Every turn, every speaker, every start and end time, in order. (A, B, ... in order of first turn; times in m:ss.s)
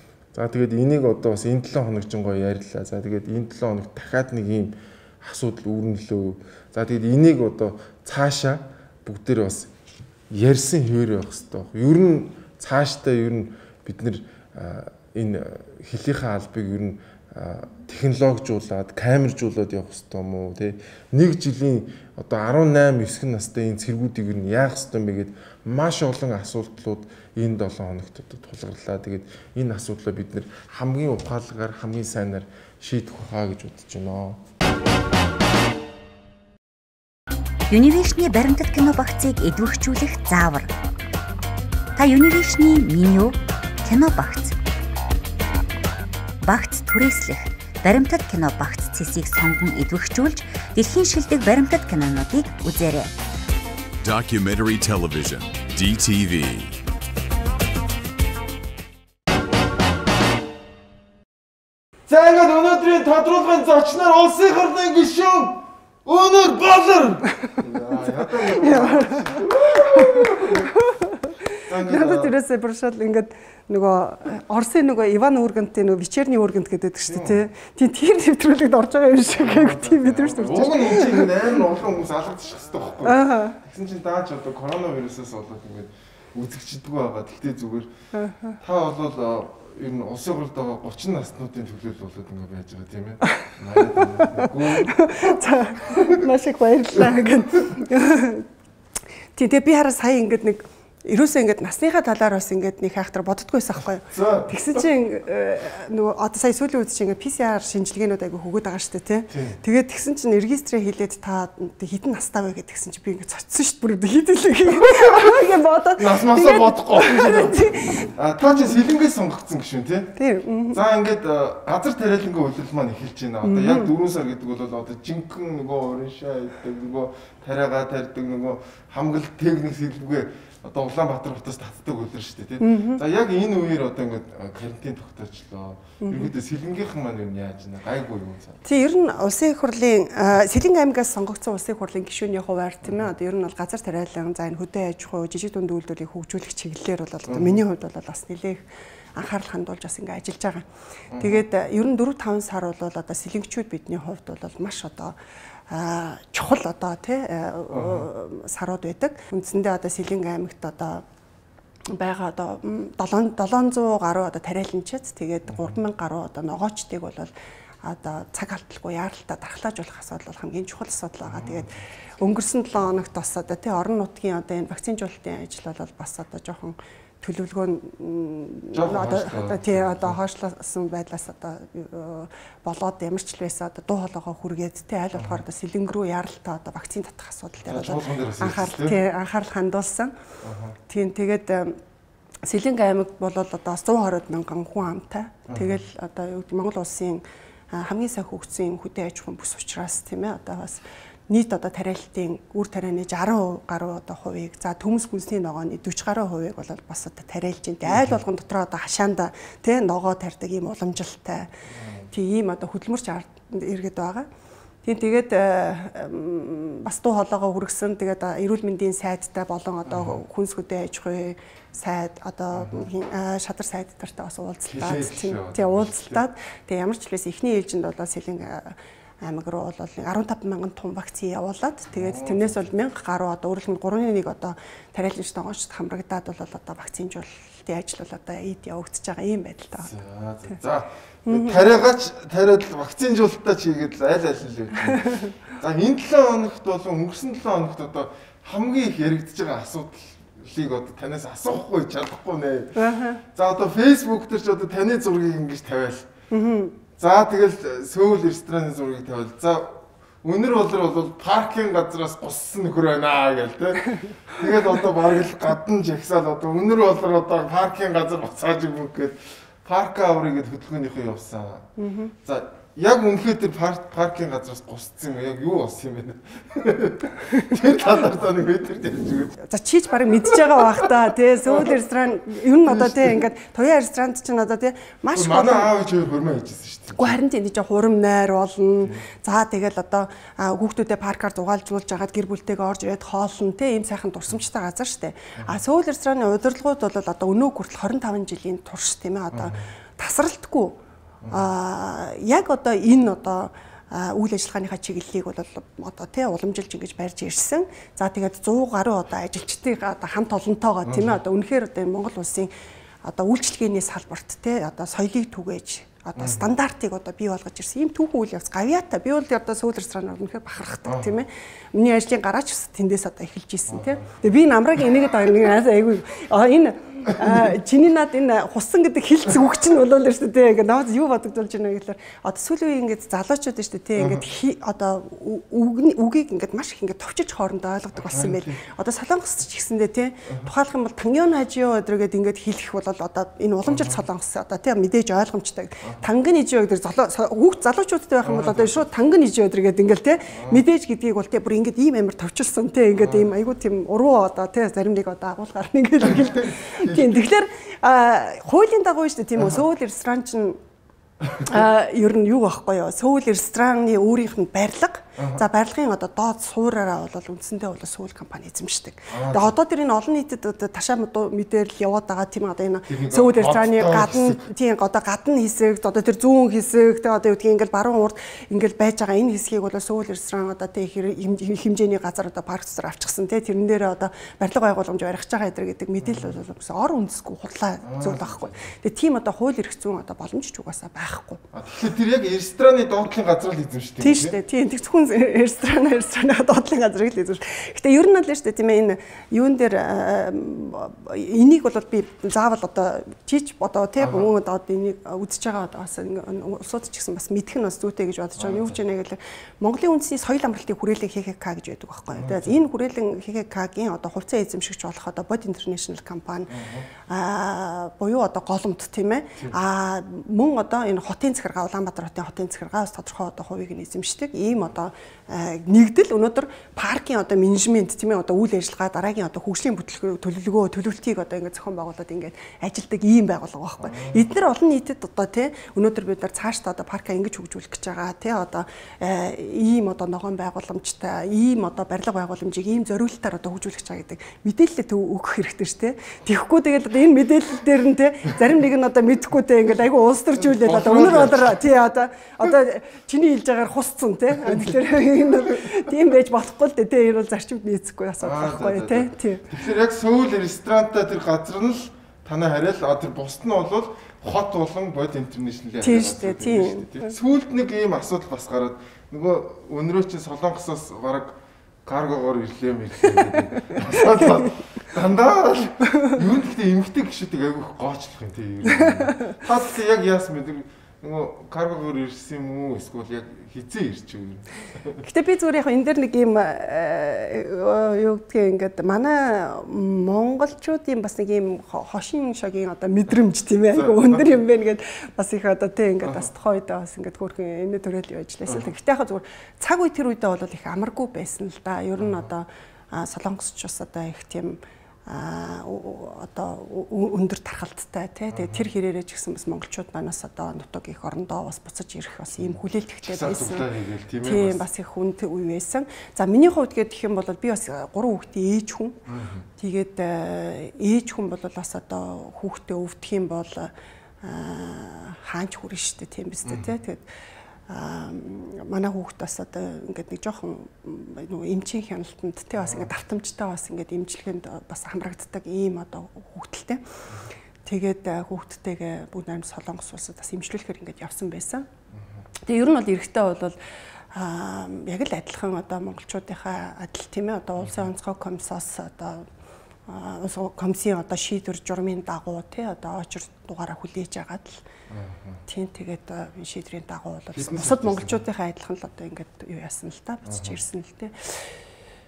0:00.3-0:09.7 A
0:10.3-0:34.4 A
0:37.7-0:40.7 B
0:42.0-0:44.5 B
0:46.4-0:53.1 B
0:54.0-0:56.8 C
1:02.1-1:10.7 A
1:08.0-1:11.1 D
1:11.6-1:12.3 A
1:11.8-1:21.3 D
1:17.1-1:17.4 A
1:19.4-1:27.9 A
1:23.0-1:23.6 D
1:28.1-1:28.6 D
1:28.6-1:36.2 A
1:34.0-1:38.4 D
1:37.0-1:37.8 A
1:39.4-1:58.8 D
1:43.8-1:44.8 A
1:49.3-1:49.6 A
1:54.7-1:55.4 A
1:56.0-2:00.1 A
2:00.2-2:00.8 D
2:00.7-2:18.6 A
2:03.4-2:03.9 D
2:12.6-2:13.0 D
2:16.0-2:16.3 D
2:18.6-2:28.6 D
2:27.3-2:27.6 A
2:29.1-2:30.6 D
2:31.1-2:31.4 A
2:31.2-2:35.2 D
2:35.7-2:41.0 D
2:37.7-2:38.1 A
2:41.9-2:47.3 D
2:45.5-2:45.8 A
2:47.8-3:10.1 D
2:51.2-2:51.7 A
2:58.7-3:00.2 A
3:05.2-3:05.4 A
3:07.6-3:09.0 A
3:10.4-3:10.8 A
3:10.9-3:11.8 D
3:12.4-3:31.5 D
3:15.5-3:15.8 A
3:27.8-3:28.2 A
3:31.7-3:32.1 A
3:32.1-3:34.3 D
3:34.8-3:59.9 D
3:39.9-3:40.2 A
3:42.5-3:42.9 A
3:44.7-3:46.2 A
3:51.9-3:52.6 A
3:59.8-4:12.8 A
4:01.2-4:01.7 D
4:12.8-4:13.2 D
4:13.3-4:16.1 A
4:16.3-4:16.8 D
4:17.0-4:31.7 A
4:31.8-4:32.1 D
4:32.2-4:39.4 A
4:39.4-4:45.7 D
4:42.6-4:43.2 A
4:45.1-4:47.2 A
4:47.0-5:00.8 D
4:59.3-4:59.6 A
5:01.3-5:12.5 D
5:10.8-5:11.2 A
5:13.0-6:00.6 D
5:16.2-5:16.5 A
5:20.8-5:21.1 A
5:23.7-5:24.1 A
5:27.1-5:27.5 A
5:34.0-5:34.2 A
5:37.9-5:38.6 A
5:43.6-5:44.0 A
5:48.2-5:48.8 A
5:50.3-5:50.6 A
5:52.9-5:53.3 A
5:56.0-5:57.1 A
6:01.2-6:01.5 A
6:01.4-6:31.4 D
6:05.2-6:05.4 A
6:09.1-6:09.5 A
6:12.9-6:14.4 A
6:26.0-6:26.3 A
6:27.8-6:28.6 A
6:31.5-6:34.3 A
6:34.0-7:39.5 D
6:44.0-6:44.3 A
6:48.4-6:48.8 A
6:52.1-6:52.6 A
6:56.5-6:56.9 A
7:13.8-7:14.3 A
7:30.4-7:31.6 A
7:34.4-7:34.8 A
7:35.3-7:35.7 A
7:38.2-8:05.0 A
7:45.8-7:47.1 D
7:53.7-7:54.3 D
7:59.1-7:59.3 D
8:05.0-8:33.7 D
8:13.7-8:14.4 A
8:22.0-8:22.3 A
8:28.3-8:28.7 A
8:32.3-8:34.6 A
8:34.2-8:39.0 D
8:39.1-8:39.4 A
8:39.6-8:47.0 D
8:46.4-8:46.7 A
8:47.7-8:56.8 D
8:52.6-8:52.9 A
8:57.6-9:01.7 D
9:01.9-9:02.2 A
9:02.5-9:03.6 D
9:04.1-9:09.2 D
9:07.6-9:07.9 A
9:09.9-9:14.6 D
9:14.9-9:15.4 A
9:15.5-9:21.5 D
9:17.3-9:18.2 A
9:20.2-9:20.6 A